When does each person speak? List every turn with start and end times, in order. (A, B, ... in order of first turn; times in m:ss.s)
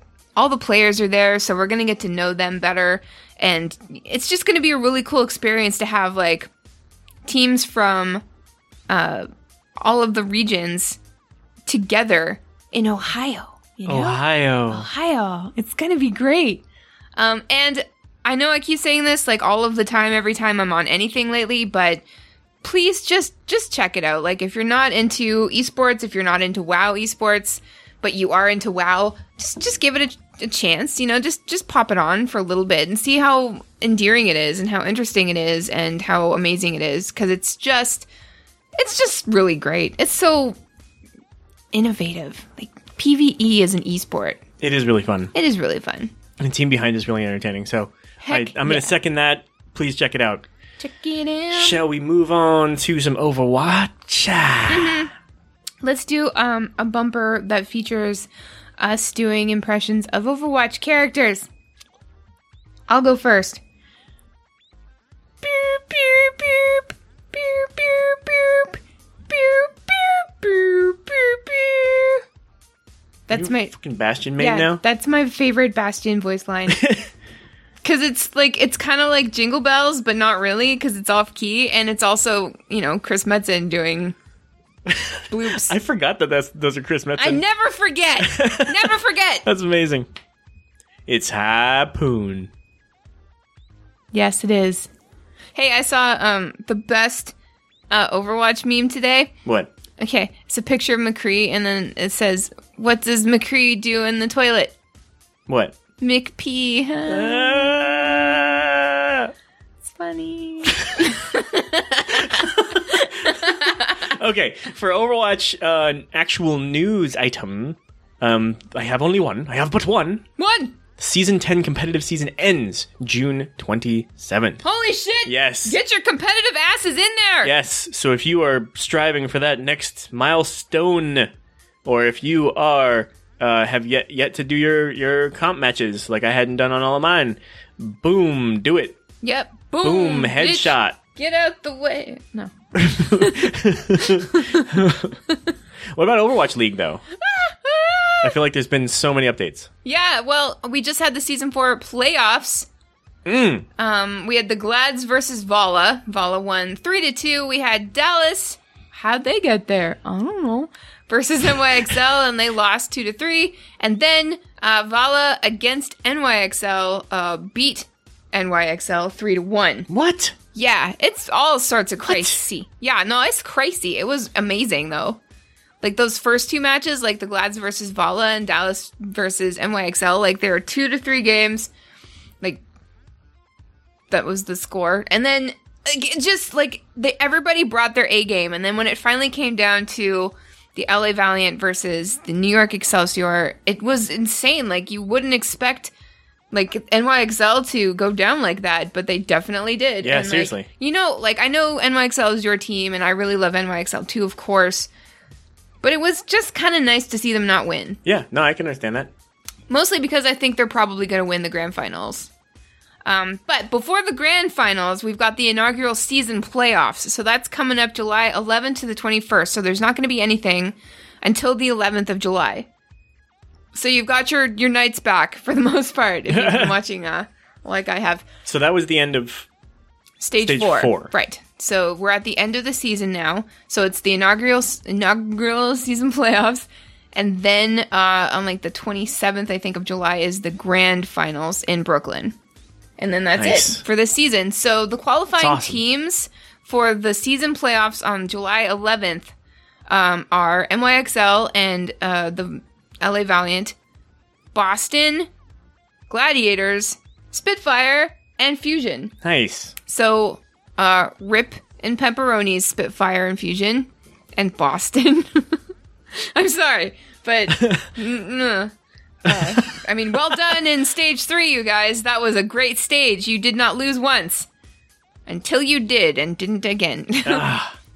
0:00.4-0:06.5 A
0:07.2-0:08.2 A
0:08.9-0:09.3 A
0:09.8-0:11.0 A
0:11.7-0:16.6 A
0:13.8-0:14.9 B
0:17.2-0:22.0 A
0:22.6-0:38.1 A
0:38.8-0:40.6 A
0:41.7-0:44.4 A
0:44.6-0:45.3 B
0:45.3-0:46.1 A
0:46.4-0:50.5 B
0:48.2-0:48.9 A
0:50.8-0:51.8 A
0:51.5-0:55.1 B
0:54.7-0:55.1 A
0:55.8-0:58.3 A
0:58.8-1:01.5 A
1:02.9-1:03.6 A
1:05.4-1:12.2 A
1:13.3-1:13.7 A
1:13.3-1:14.8 B
1:14.4-1:16.8 A
1:16.7-1:17.1 B
1:17.8-1:24.1 A
1:24.9-1:27.4 B
1:25.3-1:25.7 A
1:27.2-1:29.4 A
1:28.2-1:30.1 B
1:31.1-1:32.5 B
1:34.1-1:34.9 A
1:35.5-1:37.3 A
1:37.9-1:39.3 A
1:39.4-1:39.7 B
1:40.0-1:44.7 A
1:45.5-1:45.8 B
1:46.0-1:47.7 A
1:47.1-1:49.3 B
1:49.8-1:54.0 A
1:52.1-2:00.2 B
2:00.4-2:00.7 A
2:01.0-2:04.6 B
2:04.6-2:07.5 A
2:05.2-2:05.8 B
2:07.4-2:11.3 B
2:11.8-2:19.0 B
2:19.2-2:24.7 A
2:19.8-2:21.0 B
2:22.7-2:25.2 B
2:25.9-2:27.0 B
2:27.2-2:28.3 A
2:28.2-2:29.7 B
2:29.8-2:32.7 A
2:33.2-2:33.6 B
2:33.8-2:49.9 A
2:49.9-2:50.3 B
2:50.5-2:55.2 A
2:52.0-2:52.4 B
2:55.8-3:01.7 A
3:04.1-3:15.9 A
3:16.5-3:24.9 A
3:20.0-3:20.7 B
3:25.8-3:28.0 A
3:28.0-3:29.1 B
3:29.7-3:32.3 A
3:33.0-3:42.7 A
3:43.7-3:48.2 A
3:46.3-3:46.7 B
3:48.4-3:49.5 B
3:50.2-4:02.3 A
3:50.4-3:51.1 B
4:03.0-4:09.3 A
4:03.4-4:03.8 B
4:05.4-4:05.8 B
4:09.9-4:13.7 A
4:14.5-4:15.3 A
4:16.1-4:19.1 A
4:19.2-4:19.7 B
4:19.8-4:25.6 A
4:26.3-4:28.7 A
4:29.2-4:34.5 A
4:29.3-4:29.7 B
4:35.3-4:37.5 A
4:37.2-4:37.8 B